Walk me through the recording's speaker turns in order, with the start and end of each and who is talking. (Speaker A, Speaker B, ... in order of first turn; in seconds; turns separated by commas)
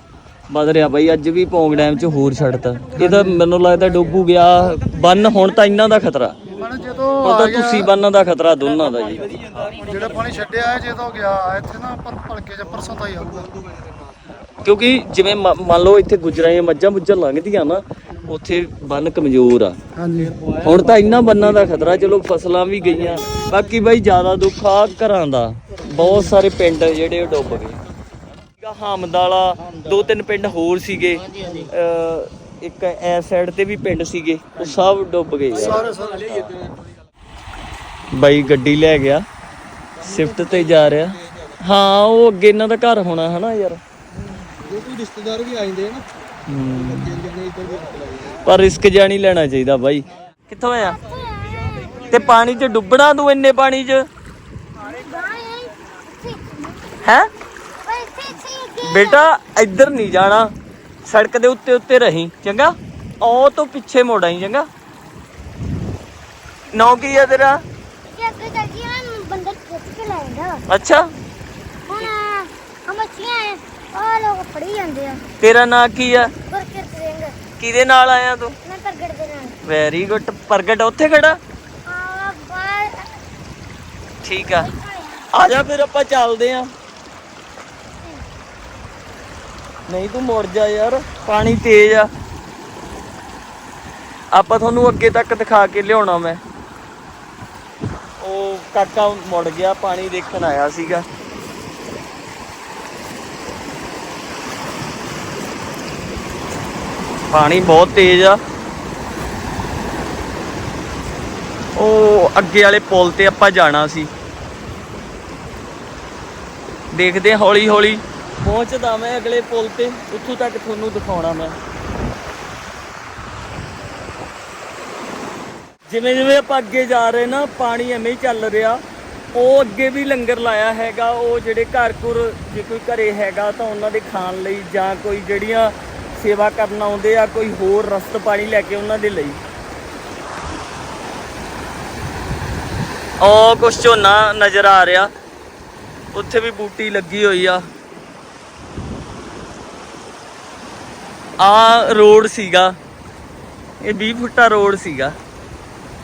Speaker A: 0.5-6.4, Speaker B: 3.0-3.4, Speaker B: 6.5-7.9, Speaker A: 7.2-9.3, Speaker C: 9.2-10.2, Speaker B: 9.8-13.5, Speaker C: 13.3-13.8, Speaker A: 14.6-19.8, Speaker B: 19.9-20.4, Speaker A: 20.6-27.8, Speaker B: 25.9-26.3, Speaker A: 28.6-35.9, Speaker B: 35.5-36.5, Speaker C: 35.6-36.8, Speaker A: 38.1-39.2, Speaker A: 40.0-43.8, Speaker A: 46.5-47.3, Speaker C: 47.0-48.3, Speaker A: 48.4-51.0, Speaker D: 50.9-52.4, Speaker A: 52.1-54.0, Speaker D: 54.8-56.8, Speaker A: 57.0-57.3, Speaker D: 57.8-59.2, Speaker A: 58.8-60.5, Speaker A: 61.0-64.7, Speaker A: 66.7-67.6, Speaker D: 68.1-70.6, Speaker A: 70.7-71.1, Speaker D: 71.9-75.2, Speaker A: 75.4-76.3, Speaker D: 76.5-77.3, Speaker A: 77.6-78.5, Speaker D: 78.6-79.5, Speaker A: 79.6-81.4, Speaker D: 81.8-83.1, Speaker A: 84.2-84.7, Speaker D: 84.5-85.3, Speaker A: 85.3-86.7, Speaker A: 89.9-92.1, Speaker A: 94.3-96.4, Speaker A: 98.2-101.0, Speaker A: 107.3-108.4, Speaker A: 111.8-114.1, Speaker A: 116.9-121.6, Speaker A: 125.9-128.8, Speaker A: 129.3-139.4, Speaker A: 143.2-145.1, Speaker A: 146.1-147.7, Speaker A: 151.4-152.8, Speaker A: 153.8-155.2